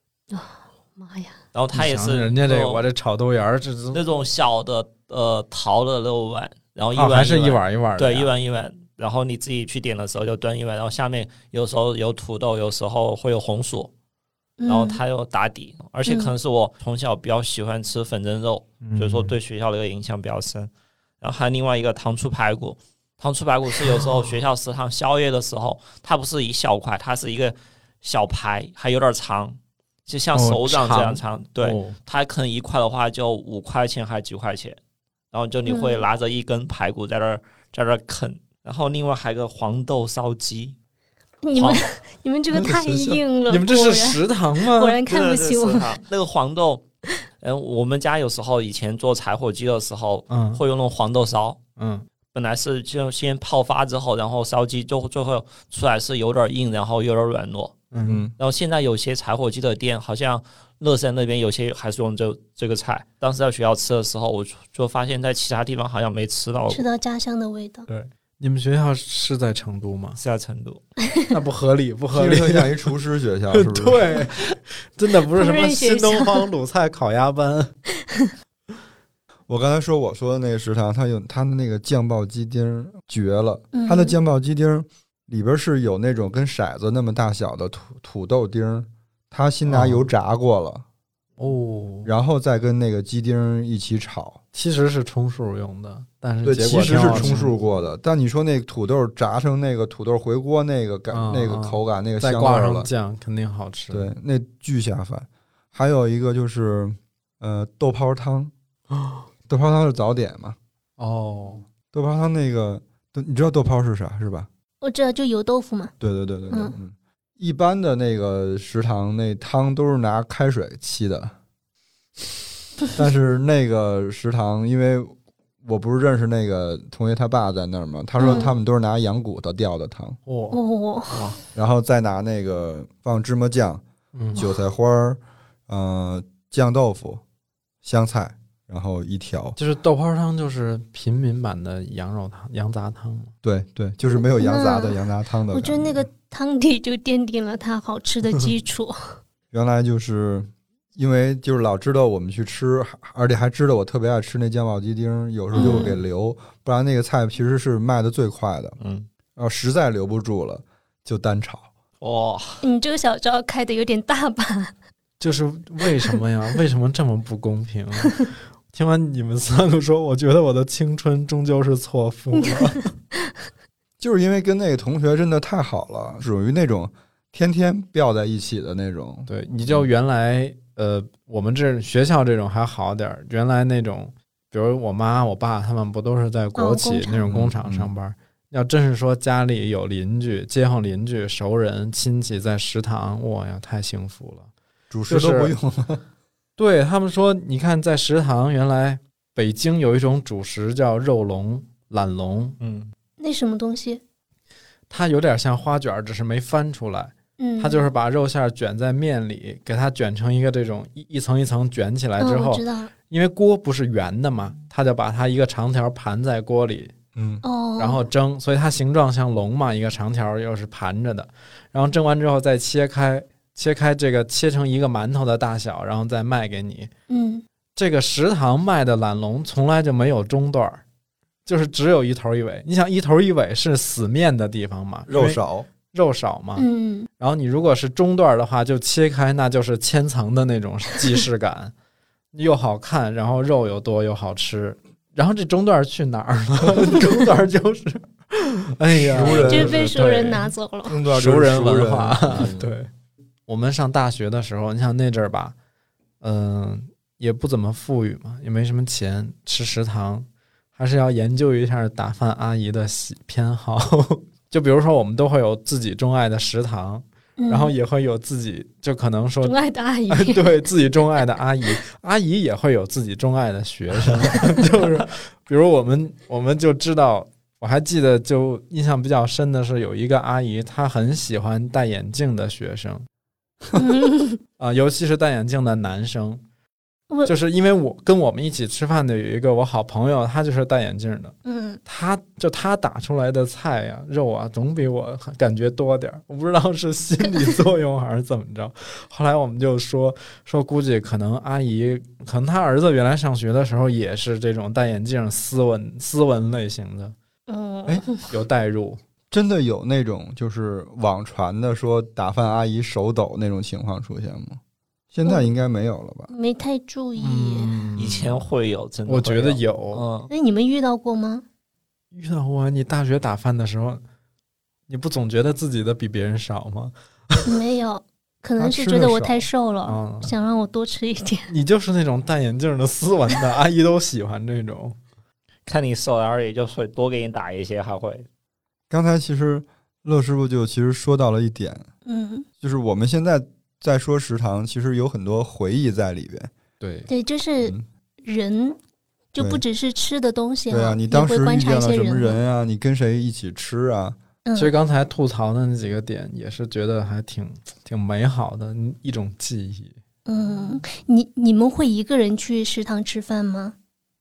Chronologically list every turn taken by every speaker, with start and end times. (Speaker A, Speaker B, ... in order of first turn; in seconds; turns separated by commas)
Speaker A: 0.3-1.4, Speaker B: 1.5-2.8, Speaker C: 1.7-4.0, Speaker B: 3.9-13.9, Speaker C: 7.0-8.3, Speaker A: 14.6-15.0, Speaker B: 14.7-20.7, Speaker A: 16.1-16.3, Speaker C: 18.8-19.3, Speaker B: 21.2-34.8, Speaker C: 30.4-32.0, Speaker B: 35.3-40.8, Speaker A: 35.7-36.0, Speaker A: 41.4-46.0, Speaker B: 41.5-41.9, Speaker D: 42.5-43.2, Speaker C: 43.5-45.0, Speaker B: 45.1-46.8, Speaker B: 47.4-51.6, Speaker C: 50.3-50.6, Speaker C: 51.8-52.1, Speaker B: 52.3-57.8, Speaker C: 57.9-58.2, Speaker D: 58.0-58.3, Speaker B: 58.4-66.9, Speaker A: 66.7-67.9, Speaker C: 67.9-70.2, Speaker B: 70.2-70.8, Speaker C: 71.3-72.8, Speaker D: 72.1-74.2, Speaker C: 73.5-77.7, Speaker A: 75.4-76.5, Speaker D: 79.5-90.8, Speaker A: 83.7-84.2, Speaker C: 89.7-90.1, Speaker C: 91.4-92.1, Speaker D: 92.0-94.4, Speaker C: 94.5-97.5, Speaker D: 96.4-102.9, Speaker A: 97.0-97.4, Speaker C: 101.1-104.1, Speaker D: 103.9-108.5, Speaker C: 108.9-109.2, Speaker D: 109.5-110.6, Speaker C: 111.0-111.6, Speaker D: 111.9-114.5, Speaker A: 114.8-115.9, Speaker D: 116.0-121.3, Speaker A: 116.5-116.8, Speaker D: 122.9-130.2, Speaker A: 128.2-128.5, Speaker C: 130.3-130.6, Speaker A: 130.5-131.3, Speaker C: 131.1-131.4, Speaker D: 131.6-133.8, Speaker C: 134.1-134.4, Speaker D: 134.3-137.2, Speaker D: 137.8-139.6, Speaker C: 139.6-143.3, Speaker D: 143.4-146.1, Speaker A: 144.2-149.2, Speaker D: 149.5-158.8, Speaker A: 155.6-156.0, Speaker B: 158.8-159.1, Speaker D: 159.4-161.7, Speaker B: 162.0-162.6, Speaker A: 162.6-164.7, Speaker C: 165.2-172.9, Speaker A: 172.4-172.7, Speaker D: 174.0-179.9, Speaker C: 179.3-194.5, Speaker A: 186.6-187.2, Speaker D: 187.3-187.9, Speaker D: 194.9-196.0, Speaker C: 195.1-195.5, Speaker C: 196.6-202.6, Speaker B: 202.6-202.9, Speaker A: 203.2-204.0, Speaker C: 204.9-216.9, Speaker A: 207.4-207.8, Speaker A: 212.2-212.9, Speaker D: 217.2-217.4, Speaker A: 217.4-218.1, Speaker C: 217.8-226.9, Speaker A: 227.1-227.4, Speaker C: 227.8-230.8, Speaker C: 231.4-236.7, Speaker D: 235.1-235.7, Speaker A: 236.6-237.1, Speaker C: 237.2-241.7, Speaker C: 242.3-250.5, Speaker D: 248.9-249.9, Speaker A: 249.2-251.0, Speaker D: 250.9-252.7, Speaker C: 251.1-252.9, Speaker C: 253.5-255.6, Speaker C: 256.2-269.6, Speaker A: 267.4-267.8, Speaker A: 269.4-270.6, Speaker C: 270.1-283.1, Speaker A: 283.8-284.4, Speaker C: 284.6-286.4, Speaker C: 287.3-307.1, Speaker A: 291.4-291.8, Speaker A: 307.5-308.3, Speaker C: 308.3-309.0, Speaker D: 309.3-314.6, Speaker D: 315.1-316.3, Speaker A: 316.3-317.7, Speaker C: 317.2-318.4, Speaker B: 318.0-320.3, Speaker C: 319.1-320.1, Speaker A: 320.3-321.4, Speaker C: 322.1-324.0, Speaker C: 324.9-327.6, Speaker A: 327.4-331.5, Speaker D: 328.6-329.5, Speaker C: 329.9-330.3, Speaker C: 331.5-335.0, Speaker B: 335.7-338.3, Speaker D: 338.9-341.9, Speaker A: 342.1-342.5, Speaker D: 342.6-346.5, Speaker C: 346.8-347.1, Speaker A: 347.1-348.8, Speaker A: 349.3-352.4, Speaker D: 350.7-354.2, Speaker A: 354.4-354.7, Speaker C: 354.6-360.0, Speaker A: 360.3-363.8